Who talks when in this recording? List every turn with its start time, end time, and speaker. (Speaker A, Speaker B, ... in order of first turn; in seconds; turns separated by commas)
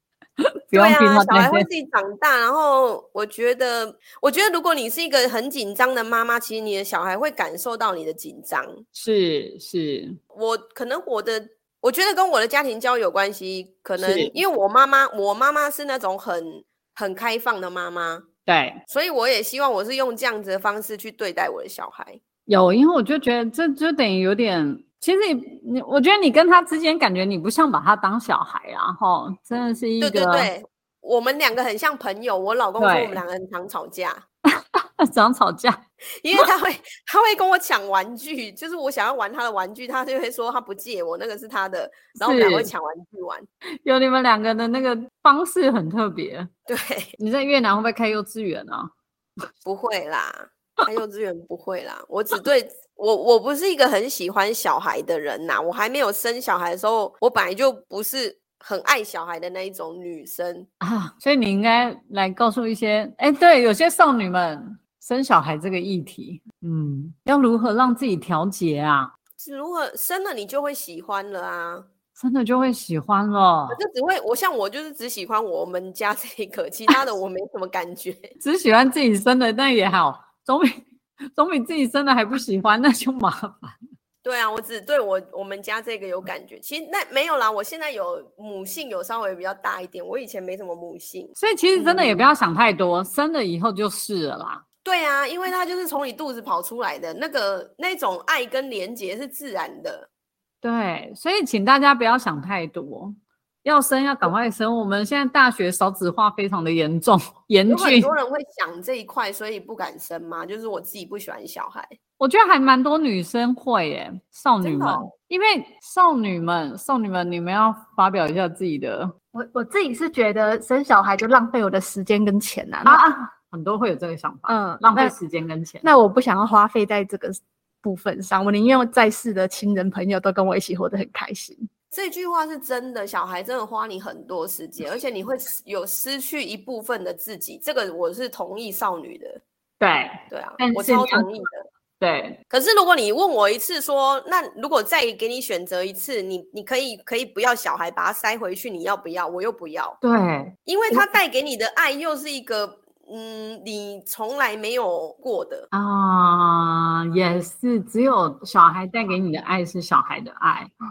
Speaker A: 0.7-1.7, Speaker B: 0.7-8.8, Speaker A: 8.9-10.2, Speaker B: 10.3-18.3, Speaker A: 14.0-14.3, Speaker A: 18.5-18.8, Speaker B: 18.9-22.2, Speaker A: 22.5-30.5, Speaker B: 30.0-34.2, Speaker A: 32.8-33.2, Speaker A: 34.6-35.8, Speaker B: 36.2-43.5, Speaker A: 42.2-42.7, Speaker A: 43.8-46.5, Speaker B: 46.7-47.1, Speaker A: 47.2-48.9, Speaker B: 49.6-60.7, Speaker A: 60.8-69.1, Speaker B: 69.4-71.9, Speaker A: 72.2-73.8, Speaker B: 73.7-78.3, Speaker A: 78.4-80.7, Speaker A: 81.3-83.8, Speaker B: 84.2-92.3, Speaker A: 91.4-94.6, Speaker B: 94.8-100.1, Speaker A: 100.6-108.1, Speaker B: 107.7-112.0, Speaker A: 112.2-119.1, Speaker B: 114.6-115.1, Speaker C: 119.3-123.0, Speaker A: 122.8-125.9, Speaker C: 124.5-125.1, Speaker C: 125.8-131.6, Speaker B: 131.9-139.4, Speaker A: 139.8-141.4, Speaker B: 140.3-141.6, Speaker A: 142.0-142.4, Speaker B: 142.5-150.0, Speaker A: 150.0-151.1, Speaker B: 150.7-155.7, Speaker A: 155.7-160.7